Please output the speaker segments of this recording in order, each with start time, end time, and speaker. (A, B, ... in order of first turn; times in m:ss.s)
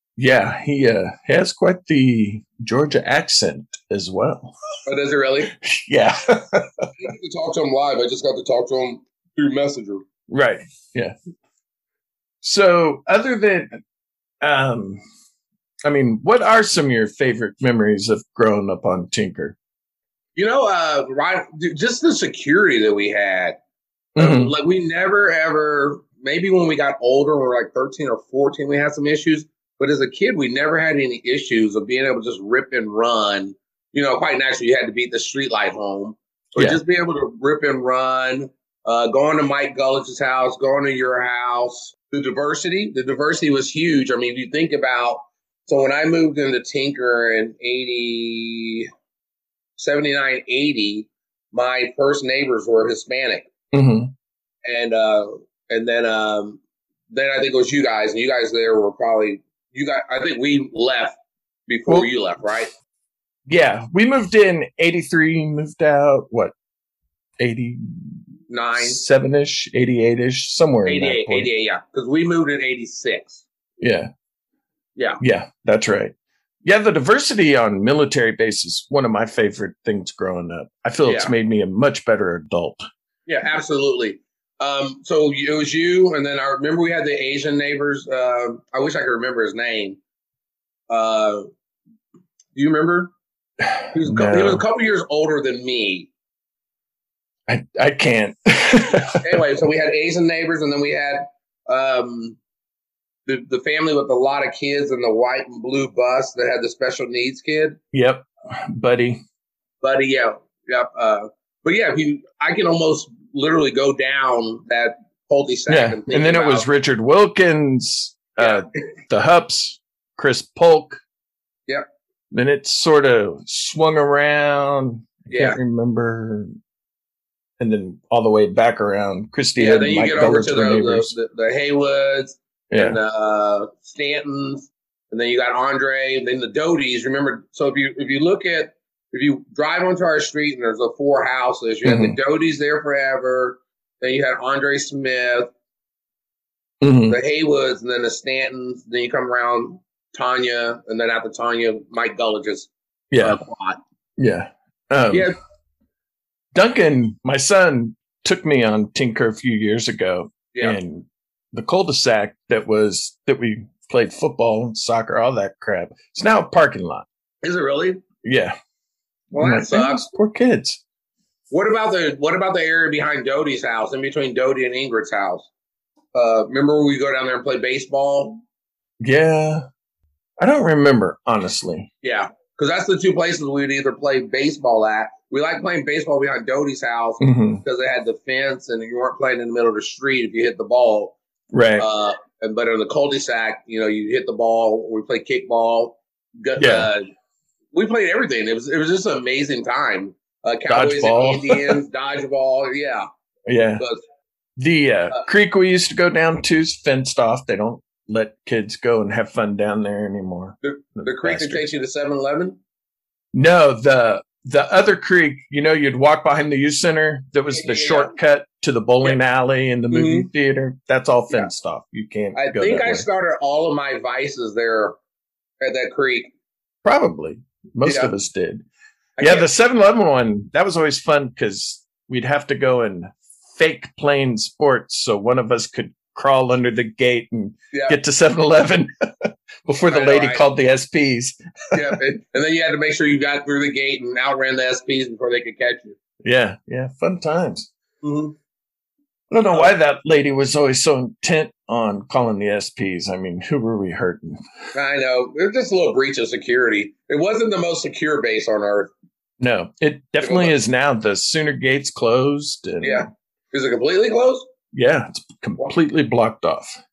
0:00.2-0:04.6 A
0:04.8-0:05.6 B
0:05.6-0:06.9 A
0:07.0-0:10.0 B
0:10.3-0:11.1 A
0:12.4-0:13.8 A
0:14.4-0:15.0 A
0:15.8-0:19.6 A
0:20.4-0:23.6 B
0:24.2-0:24.5 A
0:24.2-0:48.9 B
0:49.8-0:53.5 B
0:53.7-0:54.1 A
0:54.6-0:56.6 B
0:57.1-1:02.7 B
1:03.5-1:06.5 A
1:07.4-1:08.2 A
1:08.5-1:09.0 B
1:08.8-1:11.5 A
1:10.8-1:13.4 B
1:13.8-1:14.1 A
1:15.2-1:22.9 A
1:21.0-1:21.3 B
1:23.3-1:30.0 B
1:30.9-1:31.5 B
1:32.5-1:33.1 B
1:33.8-1:34.6 A
1:33.9-1:36.1 B
1:37.5-1:39.4 A
1:39.1-1:42.4 B
1:43.3-1:47.8 B
1:47.9-1:49.2 A
1:49.8-1:56.7 B
1:55.7-2:01.0 A
1:58.4-1:58.6 B
2:02.3-2:06.5 A
2:05.3-2:05.6 B
2:07.6-2:11.1 A
2:09.6-2:25.5 B
2:12.7-2:13.0 A
2:21.8-2:22.2 A
2:26.8-2:27.2 A
2:27.1-2:33.8 B
2:33.1-2:33.4 A
2:34.2-2:35.3 A
2:35.1-2:35.4 B
2:36.5-2:47.0 A
2:40.5-2:40.8 B
2:47.4-2:48.0 B
2:48.2-2:48.6 A
2:49.3-2:50.0 B
2:49.3-2:50.8 A
2:51.5-2:55.5 B
2:56.1-2:58.4 B
2:59.0-2:59.7 A
3:00.4-3:01.9 A
3:02.0-3:11.2 B
3:07.2-3:07.6 A
3:11.5-3:11.8 A
3:11.8-3:17.0 B
3:16.6-3:16.9 A
3:17.7-3:23.1 B
3:20.7-3:21.8 A
3:23.5-3:23.8 A
3:24.6-3:31.7 A
3:30.6-3:32.6 B
3:33.3-3:43.0 A
3:37.5-3:38.1 B
3:39.9-3:40.3 B
3:42.3-3:45.0 B
3:45.6-3:46.3 B
3:46.8-3:48.6 A
3:47.8-3:48.1 B
3:49.2-3:49.5 B
3:49.2-4:02.0 A
3:57.7-3:58.0 B
3:59.9-4:00.4 B
4:01.7-4:06.0 B
4:06.2-4:07.7 A
4:08.0-4:08.3 B
4:09.3-4:14.4 A
4:14.7-4:18.9 B
4:19.4-4:23.0 A
4:20.2-4:20.5 B
4:22.8-4:24.5 B
4:24.7-4:26.8 A